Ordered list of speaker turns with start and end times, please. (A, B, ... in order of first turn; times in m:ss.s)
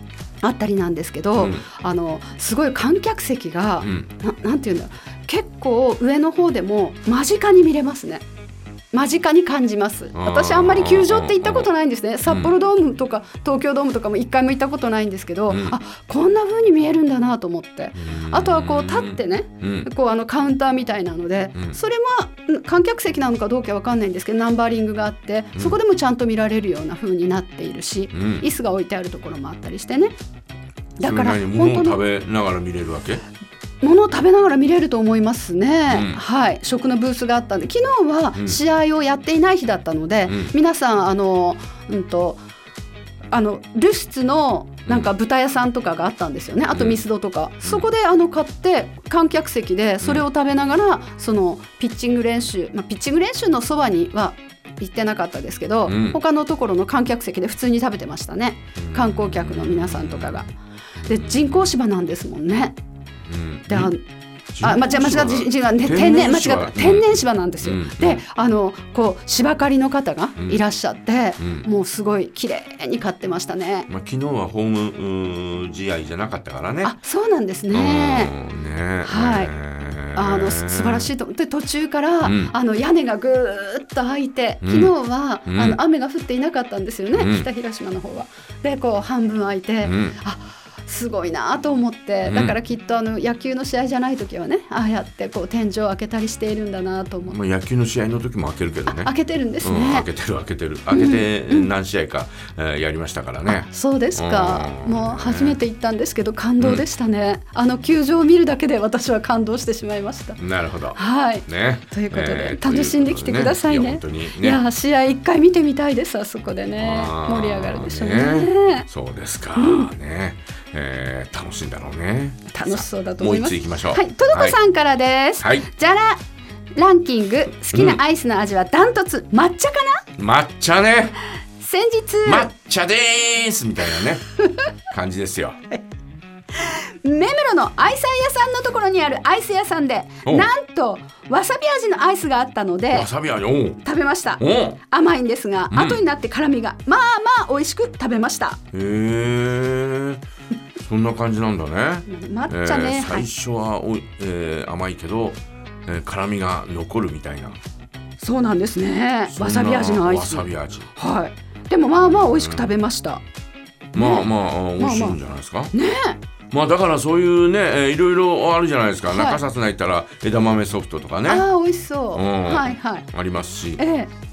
0:00.4-0:08.2 A
0:01.4-0:01.6 B
0:03.8-0:04.1 B
0:08.9-0:30.1 A
0:10.1-0:11.7 B
0:12.2-0:12.5 B
0:15.5-0:15.8 B
0:18.0-0:19.9 B
0:28.1-0:28.4 B
0:31.0-0:32.0 A
0:31.0-0:33.2 B
0:33.8-0:42.4 A
0:35.9-0:36.2 B
0:40.3-0:40.5 B
0:43.3-1:00.5 A
0:46.7-0:47.0 B
0:50.0-0:50.2 B
0:55.8-0:56.2 B
0:58.8-1:00.4 B
1:01.0-1:01.7 B
1:01.1-1:02.8 A
1:03.3-1:03.9 B
1:03.7-1:04.0 A
1:04.5-1:08.2 B
1:04.6-1:13.9 A
1:10.4-1:10.6 B
1:11.4-1:11.7 B
1:13.9-1:16.9 B
1:16.8-1:18.3 A
1:17.7-1:21.1 B
1:19.0-1:19.5 A
1:20.1-1:37.4 A
1:22.2-1:22.5 B
1:24.6-1:24.9 B
1:25.4-1:25.8 B
1:27.1-1:27.5 B
1:29.8-1:30.2 B
1:32.2-1:32.6 B
1:37.3-1:45.6 B
1:38.8-1:40.1 A
1:40.9-1:41.7 A
1:43.4-1:50.4 A
1:46.6-1:46.8 B
1:50.4-1:54.6 B
1:50.9-1:58.9 A
1:56.8-2:04.6 B
1:59.5-1:59.9 A
2:02.5-2:06.2 A
2:05.4-2:05.7 B
2:06.8-2:10.0 A
2:07.7-2:08.0 B
2:10.2-2:11.2 B
2:11.6-2:12.5 A
2:12.2-2:14.2 B
2:14.9-2:15.6 B
2:16.5-2:23.1 A
2:20.2-2:20.5 B
2:22.9-2:23.8 B
2:23.8-2:28.6 A
2:24.4-2:24.8 B
2:25.7-2:26.0 B
2:28.7-2:30.2 B
2:30.8-2:37.6 B
2:32.1-2:33.3 A
2:38.2-2:43.2 A
2:39.3-2:40.9 B
2:42.0-2:42.7 B
2:43.9-2:45.7 B
2:44.0-2:45.2 A
2:45.7-2:46.2 A
2:46.5-2:51.5 B
2:49.1-2:49.4 A
2:51.3-2:53.1 A
2:52.1-2:53.8 B
2:53.8-2:54.1 A